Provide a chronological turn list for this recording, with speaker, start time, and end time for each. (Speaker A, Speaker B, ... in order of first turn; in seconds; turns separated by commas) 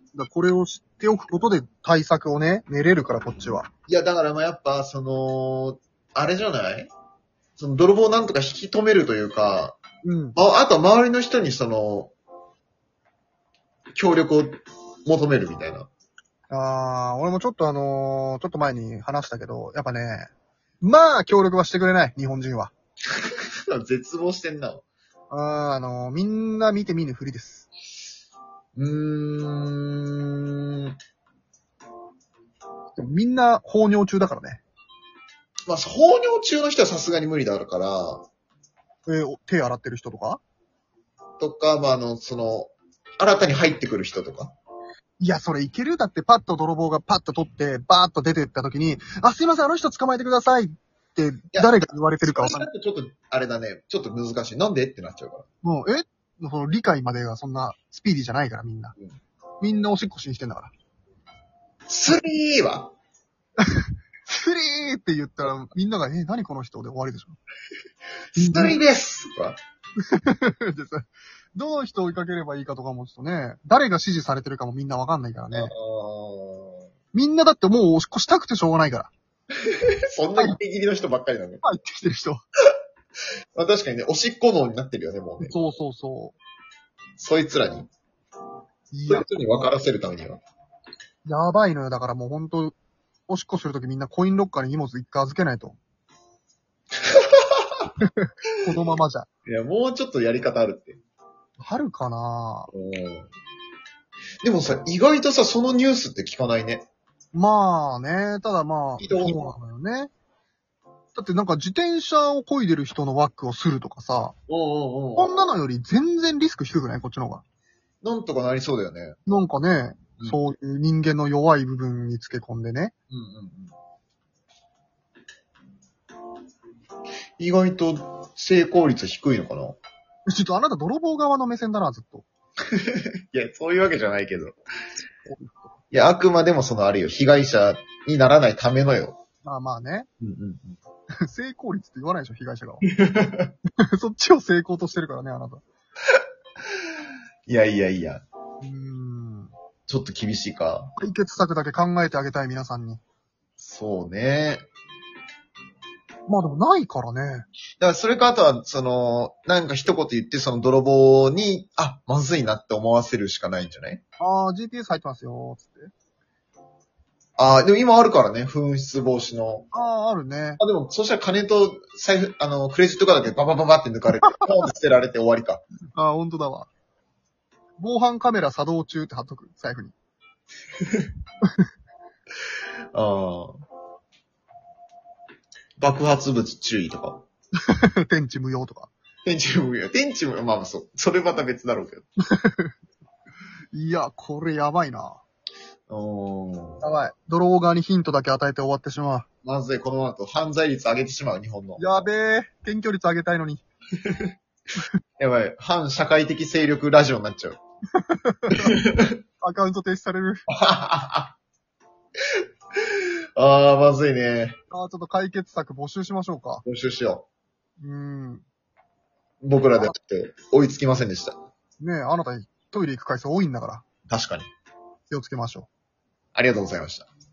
Speaker A: 0.1-3.7, Speaker B: 3.9-6.9, Speaker B: 7.6-9.8, Speaker A: 10.0-10.4, Speaker B: 10.3-12.1, Speaker B: 14.0-15.9, Speaker A: 16.5-20.3, Speaker A: 20.8-22.7, Speaker B: 23.2-24.9, Speaker A: 25.3-27.7, Speaker B: 28.8-30.9, Speaker A: 33.0-34.6, Speaker B: 35.7-38.2, Speaker A: 39.1-40.4, Speaker B: 41.4-44.5, Speaker A: 45.2-52.7, Speaker B: 51.5-55.5, Speaker A: 55.6-59.0, Speaker A: 59.6-60.7, Speaker B: 61.9-62.9, Speaker A: 63.6-67.4, Speaker A: 68.4-68.8, Speaker B: 68.4-69.6, Speaker A: 70.0-75.7, Speaker B: 75.5-76.9, Speaker A: 77.1-79.1, Speaker B: 80.1-81.6, Speaker A: 81.6-82.4, Speaker B: 83.5-85.5, Speaker A: 85.4-86.4, Speaker B: 87.2-87.9, Speaker A: 88.9-89.7, Speaker B: 89.1-90.4, Speaker A: 91.2-92.8, Speaker A: 93.3-95.8, Speaker B: 97.2-97.8, Speaker A: 98.0-99.3, Speaker B: 99.5-101.0, Speaker A: 101.6-102.7, Speaker B: 102.7-103.3, Speaker B: 104.4-106.9, Speaker A: 107.3-110.1, Speaker B: 109.0-109.4, Speaker A: 111.2-114.4, Speaker B: 114.5-115.5, Speaker A: 115.2-117.4, Speaker B: 118.0-119.2, Speaker A: 119.3-122.9, Speaker B: 123.1-123.7, Speaker B: 127.4-129.8, Speaker A: 130.3-132.3, Speaker B: 132.7-134.6, Speaker A: 135.2-135.8, Speaker B: 135.9-139.2, Speaker A: 139.4-140.1, Speaker B: 140.2-140.8, Speaker A: 141.2-142.8, Speaker B: 142.9-143.5, Speaker A: 143.8-145.6, Speaker B: 147.5-148.2, Speaker A: 148.6-149.5, Speaker B: 149.9-150.9, Speaker A: 151.0-153.0, Speaker B: 153.6-154.7, Speaker A: 156.3-157.5, Speaker B: 157.8-164.0, Speaker A: 164.2-165.9, Speaker B: 167.4-169.7, Speaker A: 169.7-170.6, Speaker B: 170.6-175.6, Speaker A: 175.9-176.7, Speaker A: 177.8-179.9, Speaker B: 182.9-183.6, Speaker B: 185.8-187.2, Speaker A: 187.7-188.9, Speaker B: 189.2-192.1, Speaker A: 192.3-192.7, Speaker A: 193.7-195.2, Speaker B: 195.9-196.9, Speaker A: 196.8-199.3, Speaker B: 199.4-202.1, Speaker A: 201.8-203.6, Speaker B: 204.1-204.3, Speaker B: 205.2-207.6, Speaker A: 208.0-208.7, Speaker B: 208.6-209.1, Speaker A: 209.4-210.4, Speaker B: 210.5-211.3, Speaker B: 213.4-214.6, Speaker A: 214.7-216.6, Speaker B: 216.7-217.3, Speaker A: 217.8-218.4, Speaker B: 219.4-221.3, Speaker A: 221.8-223.8, Speaker B: 224.1-224.5, Speaker A: 225.1-225.7, Speaker B: 226.3-227.1